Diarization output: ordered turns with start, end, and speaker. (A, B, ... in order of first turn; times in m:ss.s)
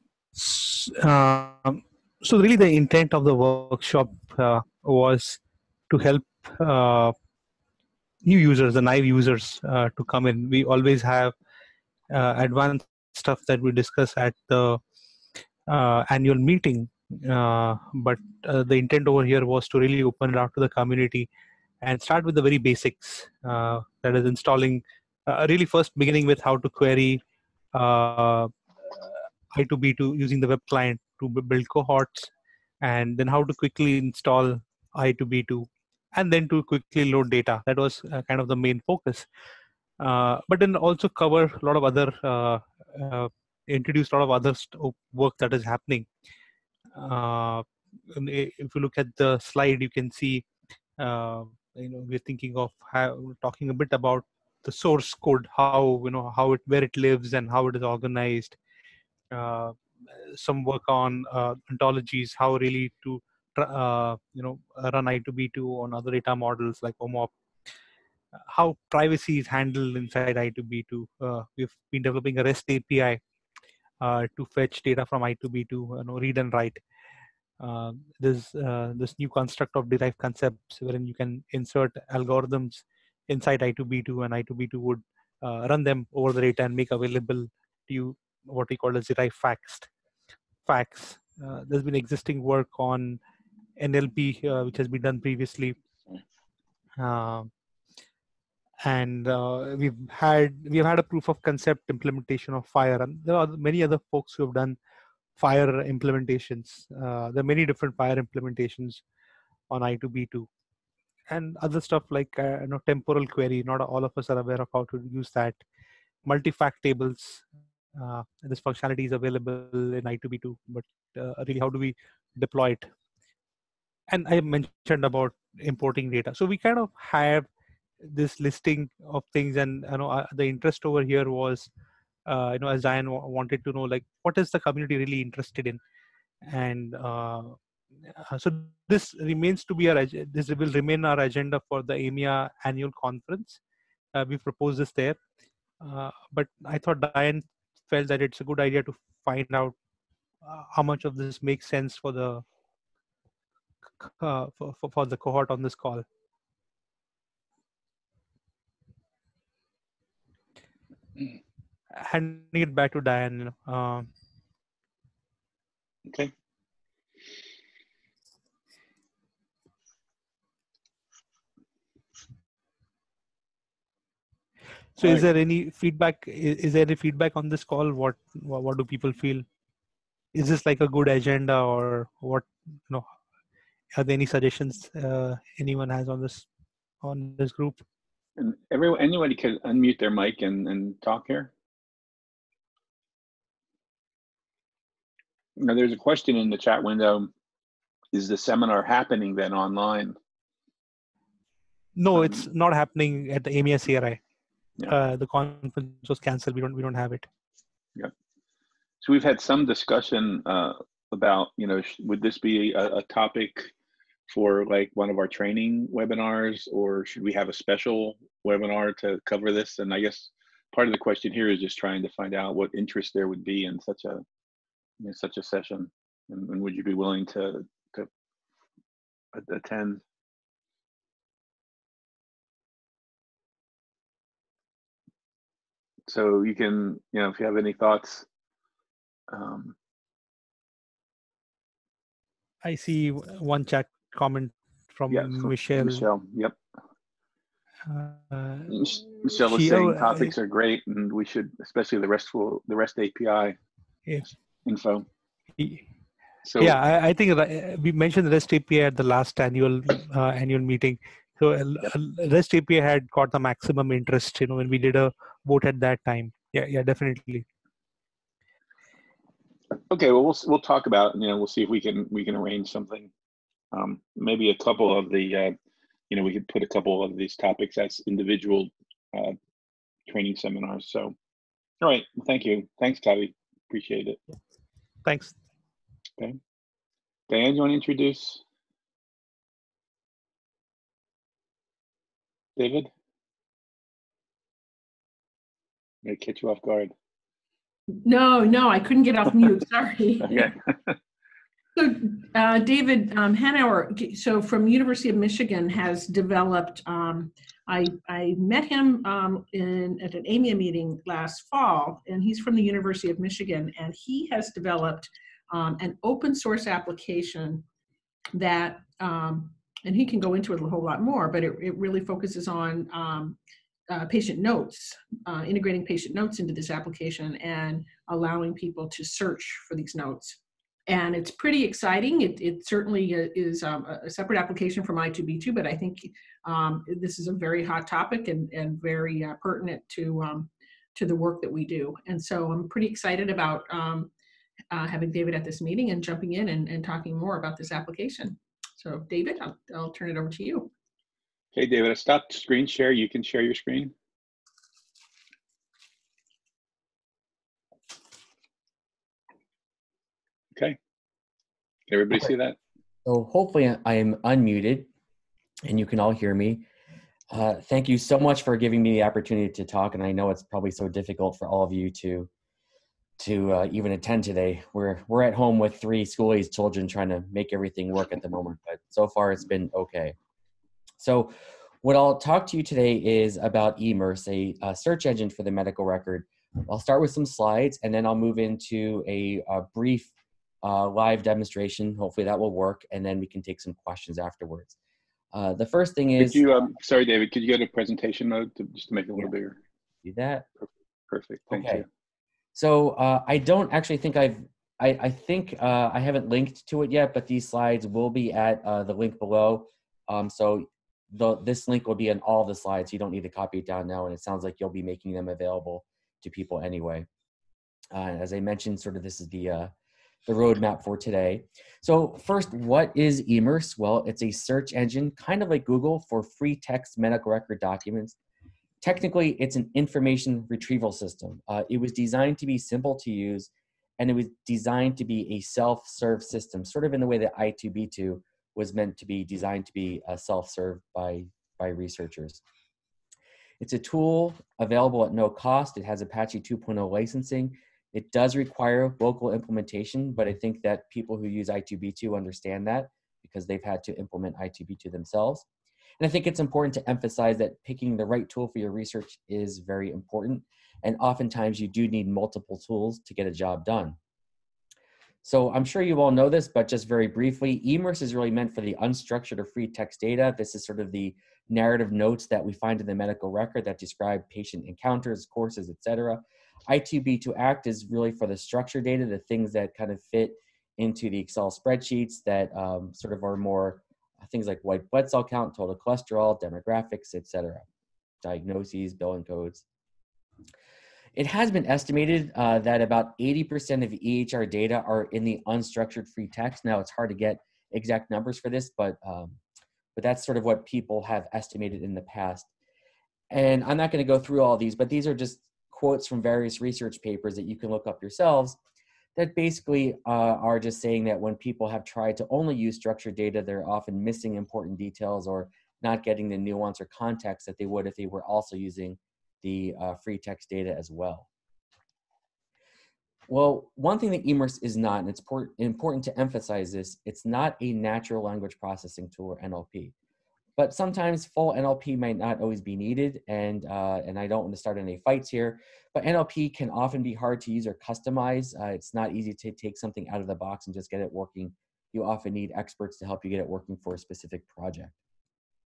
0:00.4-0:07.1 A
0:08.2-0:11.3 A
0:12.1-0:14.8 A
0:15.7-0:21.3 A
0:21.8-0:27.2 A
0:27.7-0:39.3 A
0:40.0-0:46.1 A
0:46.9-0:50.5 A
0:51.0-0:58.6 A
0:59.3-1:07.3 A
1:08.4-1:13.2 A
1:14.0-1:16.8 A
1:17.6-1:29.9 A
1:30.6-1:33.2 A
1:33.8-1:35.8 A
1:37.0-1:37.5 A
1:38.8-1:44.8 A
1:45.4-1:49.0 A
1:49.7-1:50.5 A
1:51.3-1:55.6 A
1:56.2-1:57.4 A
1:58.0-2:02.9 A
2:04.1-2:07.5 A
2:08.0-2:11.7 A
2:12.3-2:15.8 A
2:16.4-2:23.6 A
2:24.1-2:25.2 A
2:25.8-2:29.7 A
2:30.4-2:32.4 A
2:34.0-2:36.0 A
2:41.9-2:44.1 A
2:55.0-2:59.4 A
2:55.0-2:55.3 B
3:00.3-3:03.1 A
3:03.9-3:06.5 A
3:07.0-3:07.8 A
3:08.4-3:11.5 B
3:15.6-3:17.3 B
3:18.1-3:20.2 B
3:22.0-3:24.2 A
3:22.1-3:22.4 B
3:24.9-3:27.3 A
3:29.0-3:33.7 B
3:34.3-3:44.2 B
3:45.0-3:48.1 B
3:49.3-3:50.0 B
3:56.1-3:58.2 B
3:59.3-3:59.7 B
4:02.6-4:06.1 A
4:05.1-4:06.6 B
4:07.9-4:10.3 A
4:08.7-4:13.6 B
4:14.6-4:15.1 B
4:15.6-4:15.8 A
4:16.4-4:16.8 B
4:16.6-4:27.4 A
4:29.9-4:33.1 B
4:33.7-4:35.5 B
4:36.1-4:39.4 B
4:40.1-4:41.1 B
4:41.8-4:44.2 B
4:45.0-4:45.3 A
4:47.3-4:48.4 B
4:52.6-4:52.9 B
4:56.0-4:56.9 B
4:58.0-5:00.5 C
5:00.3-5:01.0 B
5:01.8-5:17.6 C
5:18.3-5:23.4 C
5:23.9-5:44.1 C
5:44.7-5:50.7 C
5:51.5-5:53.9 B
6:01.9-6:02.6 B
6:03.0-6:04.9 D
6:05.6-6:06.6 D
6:07.3-6:12.3 D
6:13.2-6:20.2 D
6:21.0-6:30.1 D
6:30.6-6:34.8 D
6:35.3-6:36.4 D
6:36.2-6:39.6 B
6:40.0-6:40.5 D
6:40.6-6:41.8 B
6:41.5-6:41.8 D
6:42.5-6:57.1 D
6:57.9-6:59.7 D
7:00.3-7:08.2 D
7:08.8-7:22.4 D
7:23.6-7:35.4 D
7:36.0-7:44.0 D
7:45.2-8:07.7 D
8:08.2-8:09.6 D
8:11.1-8:19.4 D
8:19.9-8:22.5 D
8:23.3-8:28.6 D
8:29.2-8:41.3 D
8:43.3-8:49.9 D
8:50.6-9:05.0 D